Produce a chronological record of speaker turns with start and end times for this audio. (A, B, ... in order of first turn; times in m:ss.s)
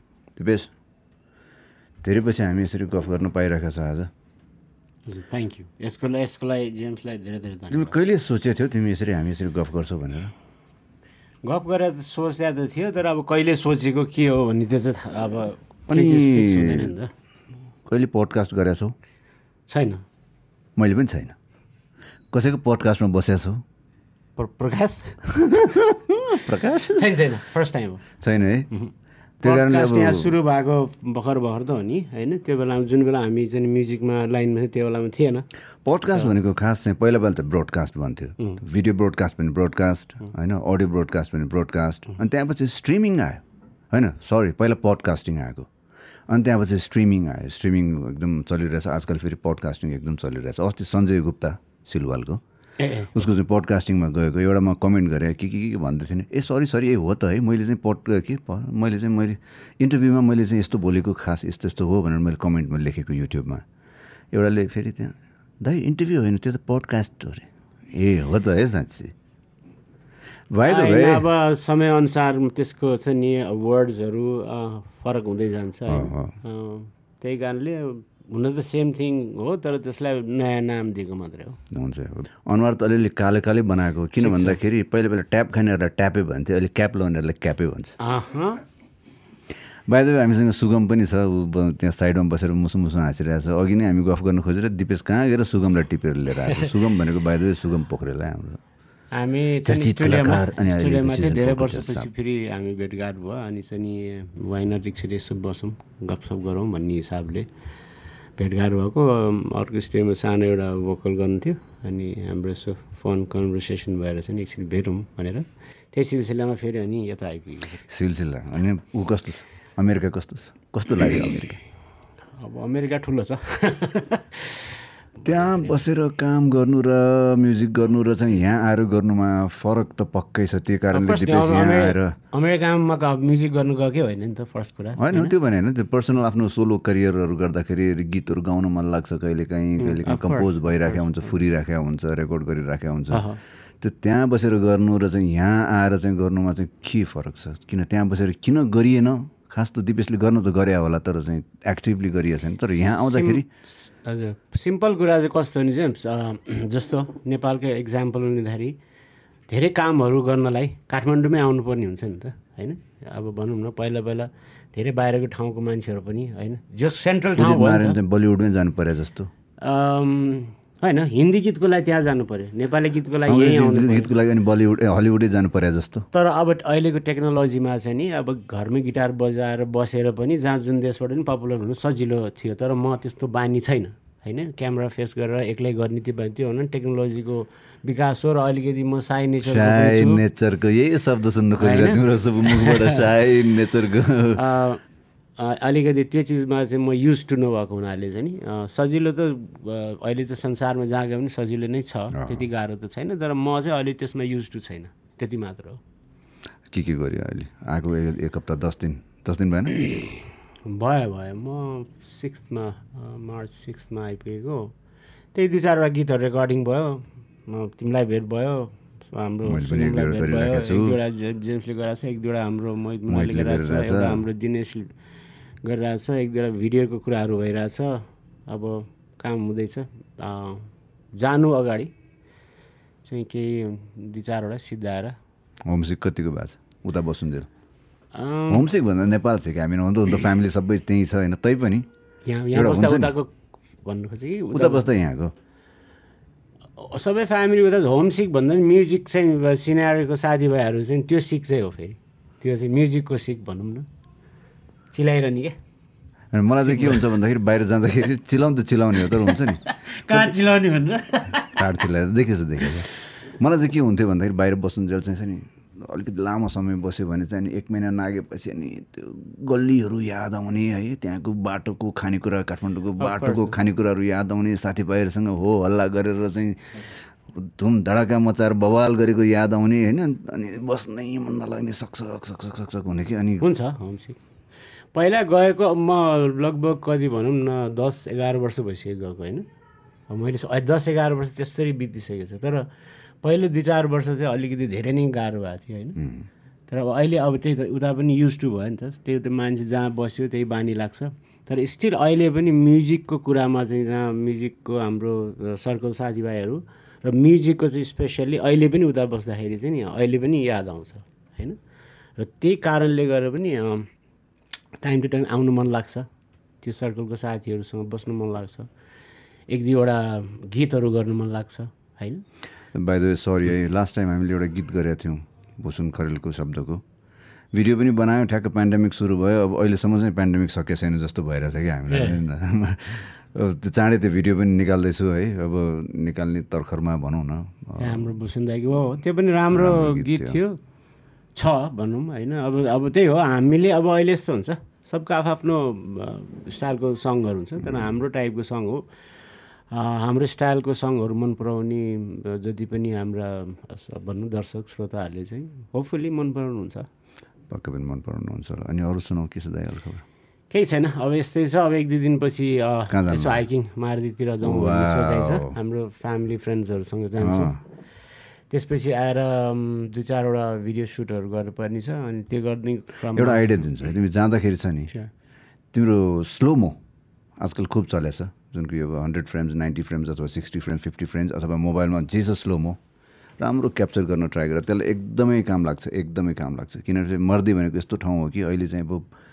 0:00.4-0:00.7 A
0:02.0-0:04.1 A
0:05.1-0:08.0 B
0:07.7-0:10.3 A
0:11.4-0:17.1 B
0:15.9-0:16.9 A
0:17.8-0:18.9 A
0:19.7-0:20.0 B
0:20.8-0:21.4 A
0:22.3-0:23.6 A
0:24.4-0:25.6 B
0:25.6-0:27.2 A
0:27.0-0:28.9 B
0:28.2-0:28.7 A
0:29.4-0:30.3 A
0:29.4-0:35.5 B
0:35.8-0:45.7 A
0:46.3-0:52.4 A
0:52.8-0:53.1 B
0:53.1-1:03.6 A
1:04.3-1:09.1 A
1:10.5-1:11.3 A
1:10.6-1:21.6 B
1:15.9-1:16.4 A
1:21.7-1:28.0 A
1:24.2-1:24.6 B
1:28.0-1:28.6 B
1:29.9-1:38.6 A
1:39.1-1:47.5 B
1:39.6-1:42.1 A
1:48.4-1:57.8 B
1:57.9-2:01.6 A
2:02.4-2:05.7 B
2:05.2-2:12.2 A
2:10.9-2:15.3 B
2:15.0-2:33.5 A
2:19.8-2:21.3 B
2:23.1-2:23.4 B
2:33.0-2:38.8 B
2:39.5-2:48.0 B
2:47.4-2:49.3 A
2:49.6-2:54.1 B
2:53.3-2:56.1 A
2:56.1-3:10.2 B
3:09.4-3:14.4 A
3:11.6-3:13.0 B
3:14.4-3:14.8 B
3:15.4-3:25.8 B
3:22.1-3:22.4 A
3:26.7-3:29.9 A
3:30.6-3:34.7 B
3:35.3-3:45.0 B
3:39.4-3:41.0 A
3:43.1-3:44.2 A
3:45.6-3:51.9 B
3:53.0-3:55.2 B
3:55.7-3:57.5 A
3:58.1-3:58.6 B
3:58.5-4:01.9 A
4:02.2-4:04.9 B
4:02.5-4:03.1 A
4:04.5-4:05.3 A
4:06.8-4:13.9 B
4:14.9-4:15.6 B
4:16.3-4:20.3 A
4:16.6-4:17.1 B
4:19.0-4:21.7 B
4:21.5-4:43.5 A
4:33.0-4:33.6 B
4:43.4-4:44.2 B
4:44.9-4:49.5 B
4:50.1-4:52.7 B
4:53.2-4:56.0 B
4:56.0-4:56.3 A
4:56.7-5:11.6 B
5:12.2-5:13.9 B
5:14.8-5:16.1 B
5:16.6-5:18.7 B
5:19.5-5:22.2 B
5:22.7-5:26.8 A
5:27.5-5:38.1 A
5:31.9-5:32.2 B
5:37.8-5:40.6 B
5:39.5-5:40.4 A
5:41.4-5:56.9 B
5:57.5-6:00.0 A
6:00.5-6:13.7 B
6:02.9-6:03.4 A
6:04.4-6:05.6 A
6:07.2-6:07.6 A
6:13.1-6:14.9 A
6:15.7-6:16.8 A
6:17.4-6:22.8 A
6:23.4-6:29.1 A